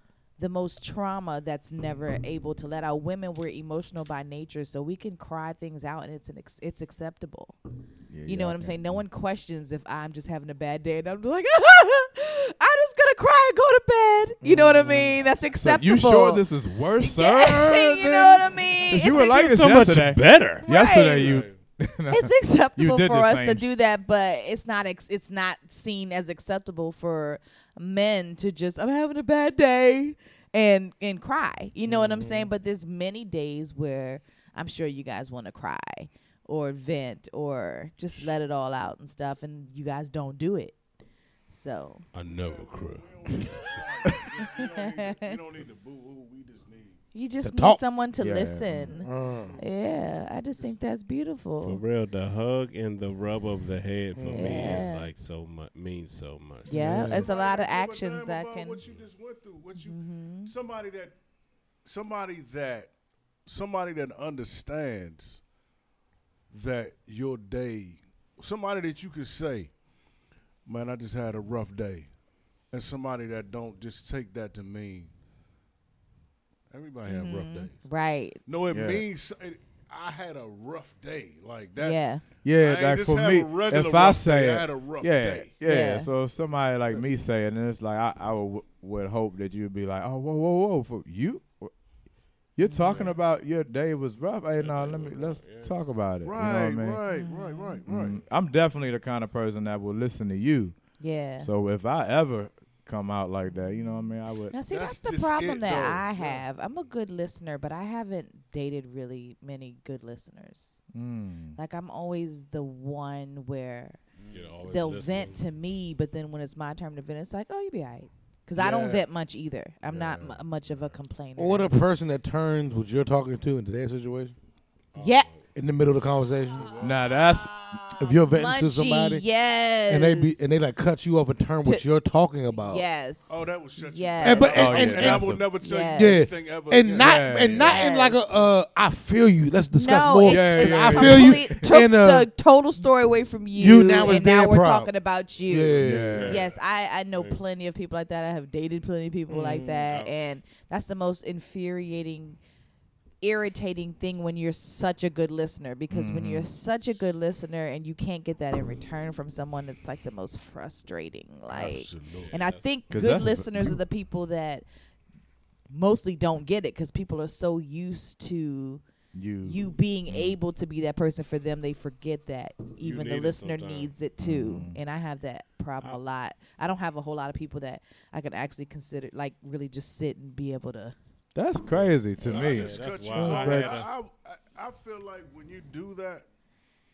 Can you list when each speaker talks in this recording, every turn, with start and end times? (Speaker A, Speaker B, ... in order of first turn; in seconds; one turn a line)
Speaker A: 0.4-7.6
Speaker B: 8.1-9.0
Speaker A: 8.2-16.4
Speaker C: 14.4-15.2
Speaker B: 15.5-23.6
Speaker A: 17.0-19.4
Speaker D: 19.1-21.5
Speaker A: 20.6-21.4
Speaker A: 22.1-40.8
Speaker C: 31.9-32.5
Speaker A: 41.5-42.0
Speaker D: 42.1-43.1
Speaker E: 42.4-47.0
Speaker A: 44.4-45.3
Speaker A: 47.1-51.8
Speaker C: 47.4-47.8
Speaker B: 48.2-49.0
Speaker C: 49.0-49.6
Speaker D: 51.6-56.9
Speaker C: 54.1-54.8
Speaker A: 54.4-55.1
Speaker A: 56.7-58.8
Speaker C: 56.7-57.2
Speaker E: 56.8-61.2
Speaker A: 59.8-60.5
Speaker E: 61.8-62.9
Speaker E: 63.5-65.4
Speaker E: 66.5-69.8
Speaker E: 70.6-72.1
Speaker E: 72.7-75.1
Speaker E: 76.7-77.8
Speaker A: 77.0-78.4
Speaker E: 78.5-85.5
Speaker B: 78.7-79.0
Speaker A: 81.8-82.2
Speaker B: 82.4-91.7
Speaker A: 85.6-86.1
Speaker B: 92.5-97.0
Speaker A: 92.7-93.1
Speaker D: 94.6-95.8
Speaker E: 96.2-98.2
Speaker A: 97.1-97.8
Speaker B: 97.8-100.8
Speaker A: 101.0-101.5
Speaker B: 101.4-104.5
Speaker A: 103.7-110.8
Speaker E: 104.7-106.4
Speaker B: 110.9-111.6
Speaker A: 111.5-114.0
Speaker E: 114.2-114.5
Speaker D: 114.3-115.4
Speaker A: 114.6-121.7
Speaker E: 118.6-119.0
Speaker E: 119.8-120.8
Speaker C: 121.3-124.3
Speaker D: 124.9-125.4
Speaker A: 125.0-125.3
Speaker C: 125.5-126.7
Speaker E: 126.5-127.1
Speaker B: 126.8-127.8
Speaker C: 128.0-129.2
Speaker A: 128.2-130.4
Speaker C: 129.9-132.8
Speaker A: 132.6-135.1
Speaker E: 133.3-137.3
Speaker C: 134.2-135.3
Speaker B: 134.5-135.4
Speaker A: 135.6-136.3
Speaker C: 135.9-142.3
Speaker B: 137.0-137.8
Speaker A: 137.6-138.4
Speaker A: 139.7-152.4
Speaker B: 140.2-141.7
Speaker C: 143.5-144.9
Speaker C: 145.4-146.3
Speaker B: 145.8-146.4
Speaker D: 146.1-146.6
Speaker D: 147.1-147.4
Speaker C: 149.3-149.9
Speaker D: 149.8-150.1
Speaker A: 153.2-164.6
Speaker B: 155.9-156.5
Speaker E: 161.5-162.4
Speaker D: 162.2-162.7
Speaker B: 162.9-163.8
Speaker A: 165.7-168.8
Speaker B: 169.1-170.4
Speaker A: 169.4-180.9
Speaker D: 172.8-173.9
Speaker B: 174.2-174.8
Speaker B: 181.3-183.8
Speaker D: 181.8-183.9
Speaker E: 182.2-186.3